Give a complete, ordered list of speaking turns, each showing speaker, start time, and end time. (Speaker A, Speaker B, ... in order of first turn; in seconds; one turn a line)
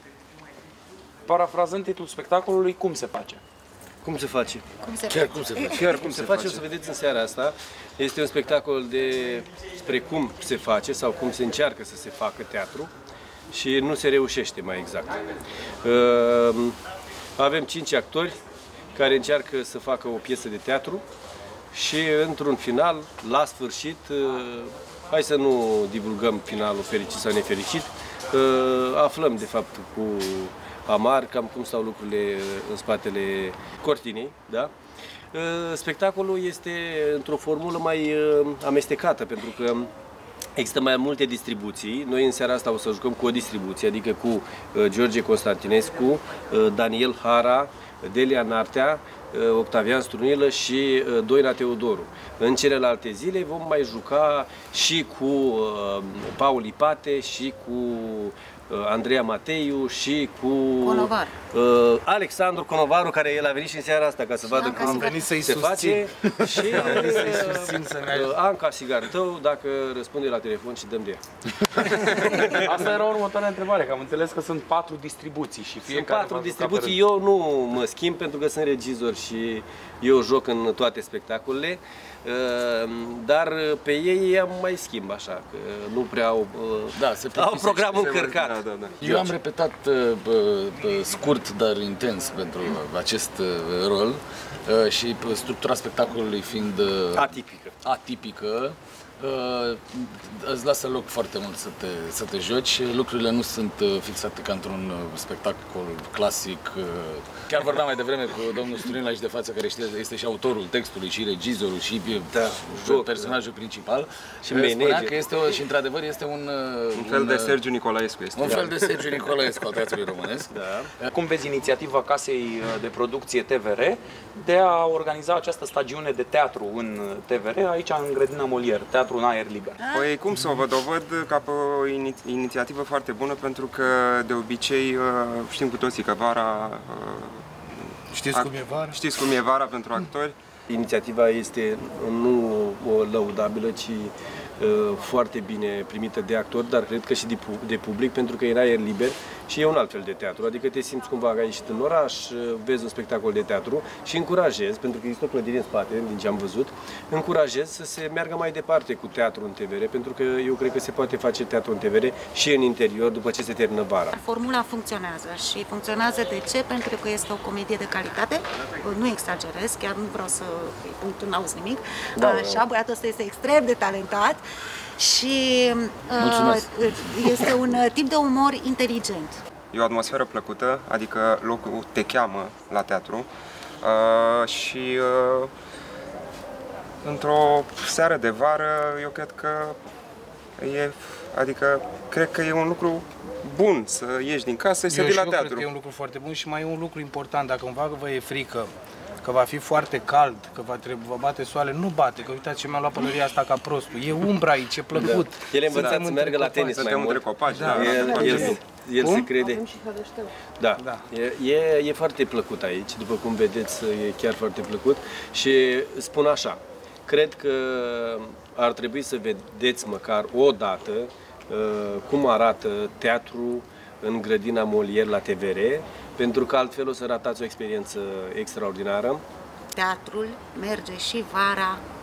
Speaker A: 1.2-3.4
Speaker B: 4.0-4.7
Speaker C: 4.8-6.2
Speaker D: 5.1-5.8
Speaker E: 5.8-6.6
Speaker B: 5.8-12.9
Speaker B: 13.5-15.2
Speaker B: 15.8-16.8
Speaker B: 17.4-18.4
Speaker B: 18.9-21.0
Speaker B: 21.7-34.7
Speaker B: 35.3-39.9
Speaker B: 40.6-71.2
Speaker C: 60.8-61.4
Speaker C: 64.4-65.2
Speaker F: 64.7-68.3
Speaker A: 71.7-77.0
Speaker B: 72.0-72.7
Speaker B: 75.8-89.3
Speaker D: 86.9-88.1
Speaker E: 87.9-89.0
Speaker D: 89.0-117.6
Speaker B: 97.1-97.7
Speaker B: 112.3-113.4
Speaker B: 114.4-115.2
Speaker E: 116.9-118.7
Speaker D: 118.3-121.1
Speaker B: 118.5-118.7
Speaker B: 120.5-120.9
Speaker A: 121.1-129.8
Speaker E: 129.9-137.4
Speaker F: 138.1-139.0
Speaker E: 138.3-140.3
Speaker B: 140.7-164.1
Speaker C: 164.1-174.4
Speaker B: 172.2-172.6
Speaker C: 175.0-179.4
Speaker D: 176.2-177.8
Speaker E: 179.7-183.3
Speaker E: 183.8-185.5
Speaker E: 187.0-189.8
Speaker E: 190.6-195.7
Speaker F: 194.9-198.7
Speaker F: 199.2-207.9
Speaker B: 204.9-229.2
Speaker E: 205.7-208.6
Speaker F: 209.0-209.4
Speaker F: 210.8-211.1
Speaker C: 229.7-231.8